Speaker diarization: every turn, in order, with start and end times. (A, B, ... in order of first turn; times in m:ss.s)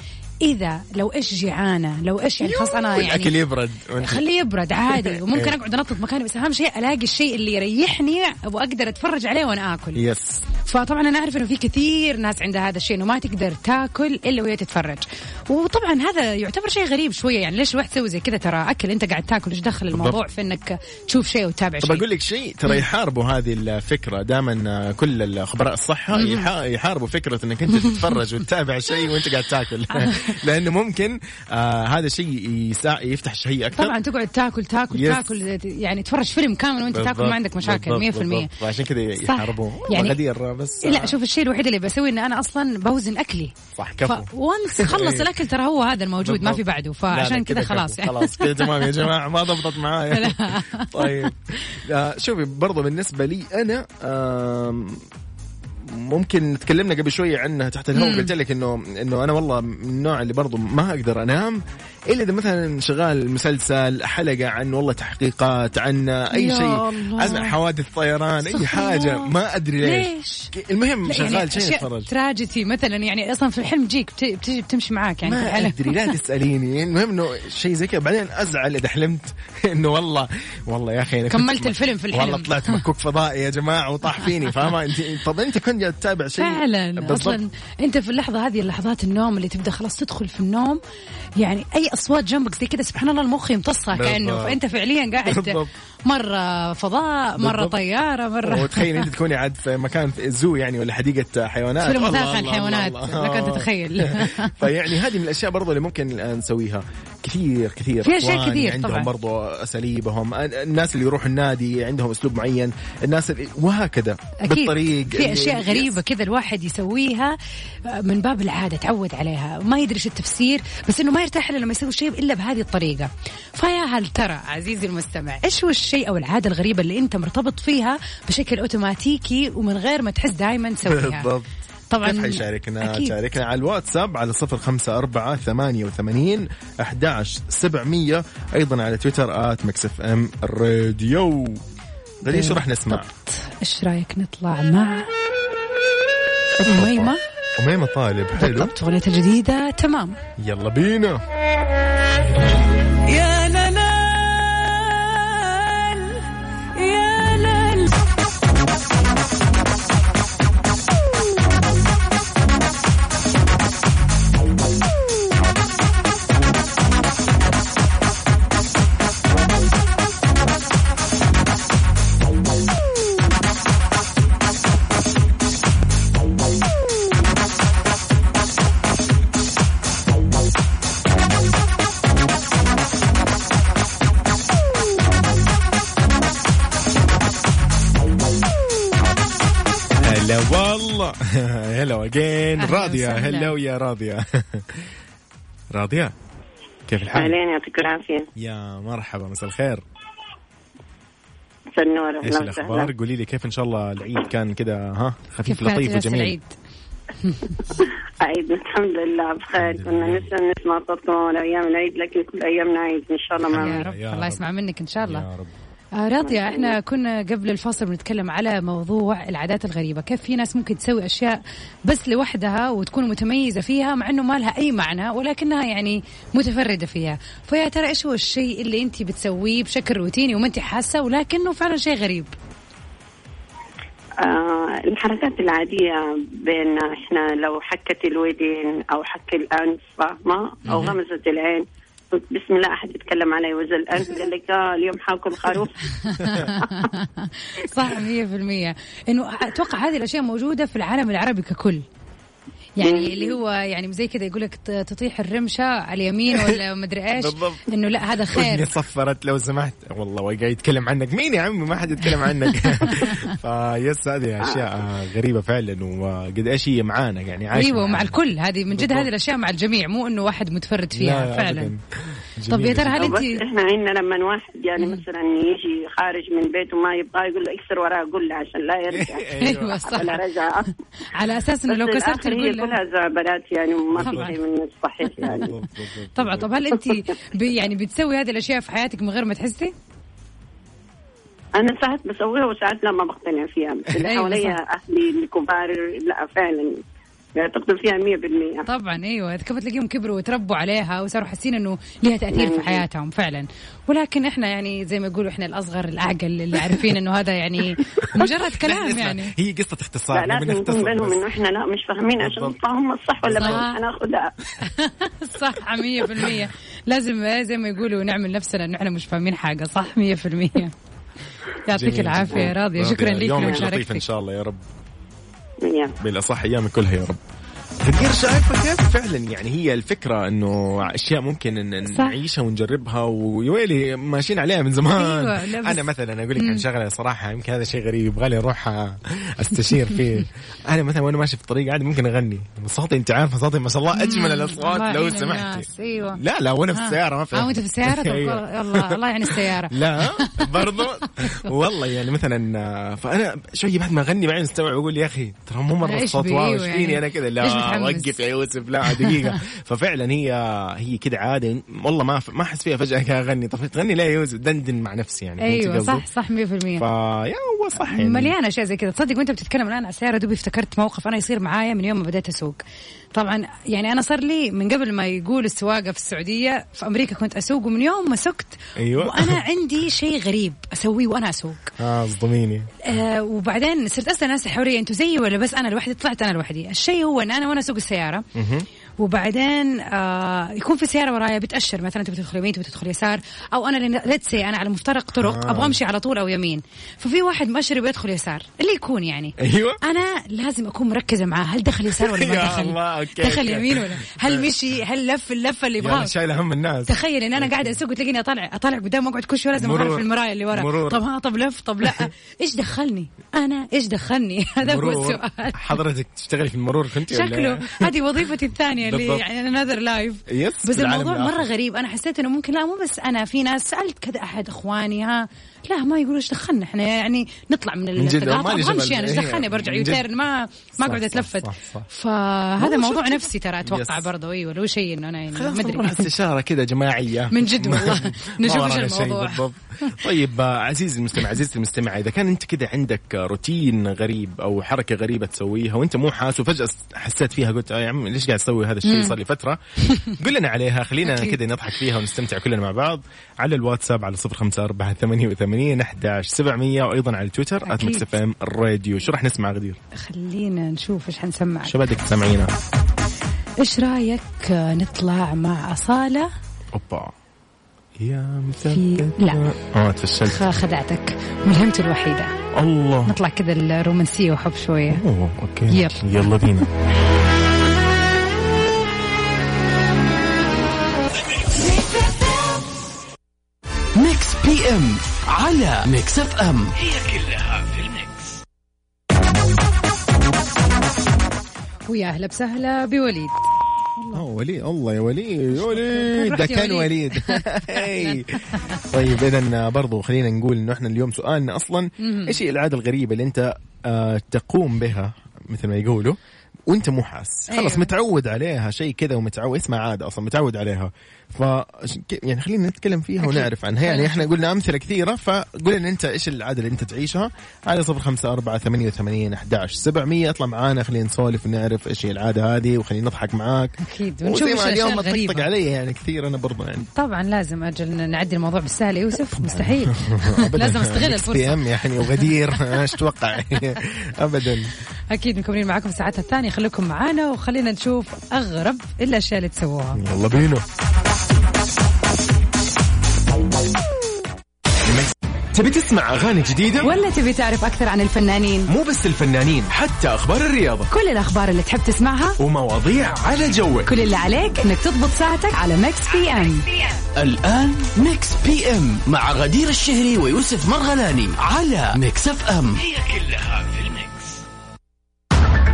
0:00.4-0:03.4 A
0:02.4-0:04.2 B
0:04.0-0:10.0 A
0:04.9-0:05.6 B
0:09.9-0:10.4 B
0:10.6-0:22.1 A
0:19.9-0:20.2 B
0:21.8-0:34.0 B
0:26.1-0:26.5 A
0:29.9-0:30.4 A
0:33.8-0:38.5 A
0:34.9-0:35.3 B
0:36.9-0:41.2 B
0:39.2-0:40.2 A
0:40.8-0:49.0 A
0:43.8-0:45.4 B
0:46.2-0:55.0 B
0:50.1-0:51.3 A
0:55.8-1:12.1 B
0:57.9-0:58.3 A
1:06.3-1:07.6 A
1:08.4-1:10.5 A
1:11.0-1:16.1 A
1:15.2-1:27.4 B
1:21.3-1:22.8 A
1:26.4-1:30.8 A
1:31.4-1:39.1 A
1:33.9-1:34.6 B
1:35.2-1:35.7 B
1:37.4-1:37.8 B
1:38.4-1:56.0 B
1:41.8-1:44.5 A
1:48.0-1:49.1 A
1:54.4-2:11.3 A
2:10.8-2:11.5 B
2:11.9-2:13.1 A
2:12.0-2:21.6 B
2:22.2-2:23.1 B
2:22.3-2:25.1 A
2:26.6-2:28.7 B
2:26.6-2:27.2 A
2:28.4-2:30.2 A
2:30.4-2:31.2 B
2:33.1-2:36.1 A
2:36.8-2:38.0 A
3:10.0-3:14.9 B
3:12.6-3:13.5 A
3:15.7-3:16.1 B
3:16.9-3:17.4 B
3:17.1-3:18.3 C
3:18.4-3:19.8 B
3:21.8-3:22.9 C
3:22.2-3:26.4 B
3:25.5-3:26.5 A
3:27.2-3:27.6 A
3:27.8-3:33.8 C
3:29.6-3:30.3 B
3:33.4-3:34.4 B
3:33.6-3:35.2 A
3:35.0-3:35.5 B
3:36.0-3:52.3 A
3:36.2-3:36.8 C
3:54.2-4:05.8 C
4:00.7-4:01.0 B
4:06.0-4:11.8 A
4:06.2-4:06.5 B
4:12.8-4:18.7 A
4:12.8-4:13.3 C
4:16.3-4:16.6 B
4:17.2-4:17.6 B
4:18.3-4:28.2 B
4:22.2-4:23.3 A
4:27.5-4:31.7 A
4:28.7-4:29.1 B
4:30.9-4:33.2 B
4:32.5-4:33.4 A
4:33.0-4:40.7 C
4:38.9-4:40.0 B
4:39.4-4:40.2 A
4:41.1-4:42.8 A
4:41.7-4:45.5 C
4:43.9-4:44.3 B
4:44.0-4:44.4 A
4:45.2-4:46.5 B
4:45.2-4:45.5 A
4:46.1-4:49.7 A
4:51.6-4:56.8 C
4:54.0-4:54.6 A
4:57.4-4:58.7 C
4:58.6-5:09.3 A
5:02.3-5:02.8 C
5:08.0-5:11.3 B
5:10.1-5:14.3 C
5:12.2-5:12.6 B
5:13.2-5:13.6 B
5:13.4-5:13.8 A
5:14.6-5:20.7 A
5:21.6-5:24.0 A
5:21.7-5:24.6 B
5:25.6-5:26.0 C
5:26.0-5:27.2 B
5:27.8-6:06.0 B
5:31.8-5:32.2 A
5:35.0-5:35.9 A
5:36.4-5:36.6 A
5:43.9-5:46.2 A
5:46.8-5:51.5 A
5:55.8-5:58.1 A
5:58.9-5:59.4 A
6:05.4-6:06.8 A
6:06.8-6:08.3 B
6:07.8-6:12.6 A
6:13.1-6:21.7 A
6:18.8-6:19.4 B
6:21.8-6:22.7 B
6:22.8-6:28.2 A
6:28.4-6:28.6 B
6:29.0-6:46.1 A
6:35.1-6:35.8 B
6:39.4-6:39.8 B
6:41.9-6:44.5 B
6:45.8-6:47.8 B
6:46.9-6:55.8 A
6:49.6-6:51.0 B
6:51.8-6:52.1 B
6:54.6-6:58.0 B
6:57.1-7:16.1 A
6:58.8-6:59.2 B
7:00.3-7:01.5 B
7:08.0-7:10.1 B
7:10.8-7:11.9 B
7:12.6-7:14.1 B
7:15.3-7:39.8 B
7:17.3-7:20.0 A
7:28.8-7:29.2 A
7:31.0-7:31.4 A
7:37.6-7:38.1 A
7:39.9-7:41.8 A
7:41.6-7:42.5 B
7:43.6-7:46.3 A
7:46.7-7:47.1 B
7:48.0-7:50.5 B
7:48.7-7:49.4 A
7:50.2-7:52.3 A
7:52.5-7:53.2 B
7:53.0-7:55.0 A
7:54.9-7:56.7 B
7:55.7-7:56.0 A
8:04.0-8:08.1 D
8:11.9-8:13.4 A
8:14.0-8:14.2 A
8:14.1-8:46.9 B
8:15.5-8:18.6 A
8:22.0-8:22.4 A
8:27.5-8:27.9 A
8:33.2-8:34.3 A
8:43.8-8:45.5 A
8:47.0-8:52.9 A
8:49.3-8:54.7 B
8:55.1-9:00.0 A
9:00.0-9:00.6 B
9:04.8-9:06.9 B
9:06.8-9:08.7 A
9:08.7-9:10.9 B
9:10.9-9:12.4 A
9:12.4-9:13.9 B
9:13.9-9:16.6 A
9:17.2-9:24.4 D